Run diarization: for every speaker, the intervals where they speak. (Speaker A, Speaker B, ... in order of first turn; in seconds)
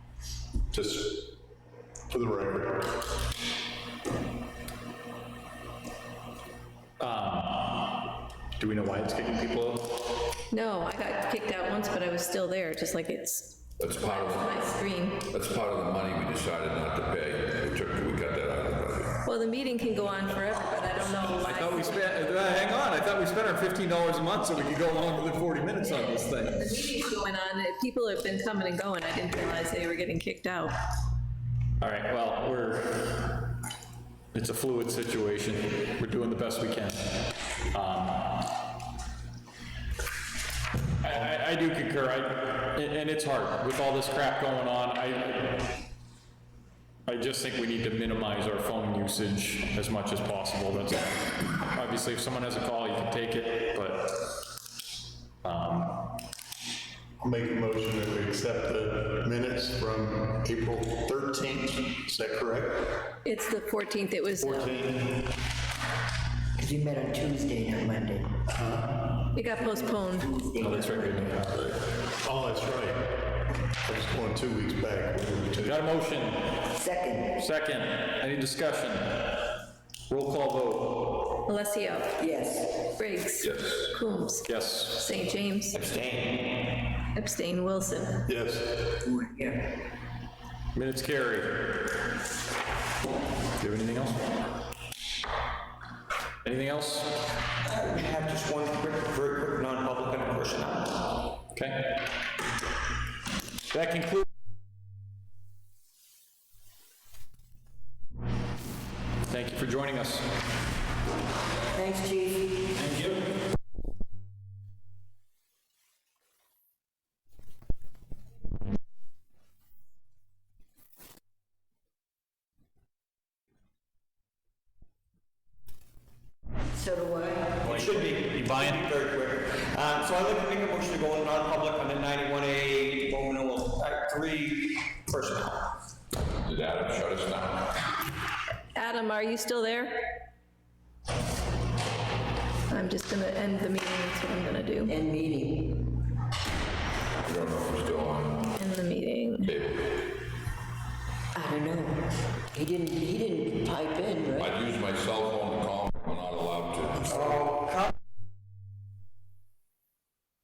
Speaker A: 0.7-1.3, 2.1-2.9, 57.2-62.9, 68.5-69.0, 72.2-75.9, 88.2-88.9
Speaker B: 7.0-7.9, 8.6-9.8, 21.2-26.6, 31.8-33.2, 34.3-37.2, 37.7-38.5, 41.0-45.8, 47.0-54.2, 55.4-56.0, 70.6-71.8, 75.6-76.6, 77.4-79.5, 80.1-81.4, 84.4-85.1, 90.7-91.8, 93.6-94.2, 96.4-97.1, 101.5-101.9, 103.7-104.2, 109.3-110.2, 127.7-128.8
Speaker C: 10.5-15.2, 19.2-22.2, 25.9-30.8, 63.2-64.7, 69.3-70.3, 81.4-82.2, 83.0-85.8, 87.1-88.3, 138.7-140.2, 142.7-144.9, 148.6-149.5
Speaker D: 13.8-14.7, 15.2-19.2, 83.4-83.8, 136.4-137.8, 147.2-148.6, 149.4-150.0, 154.4-157.3
Speaker E: 66.6-68.4, 70.2-71.2, 76.8-77.4, 82.2-82.9, 89.1-89.7, 111.7-112.7, 126.7-127.8, 144.8-145.9, 151.3-154.5
Speaker F: 85.7-86.6, 97.6-101.0, 127.7-135.7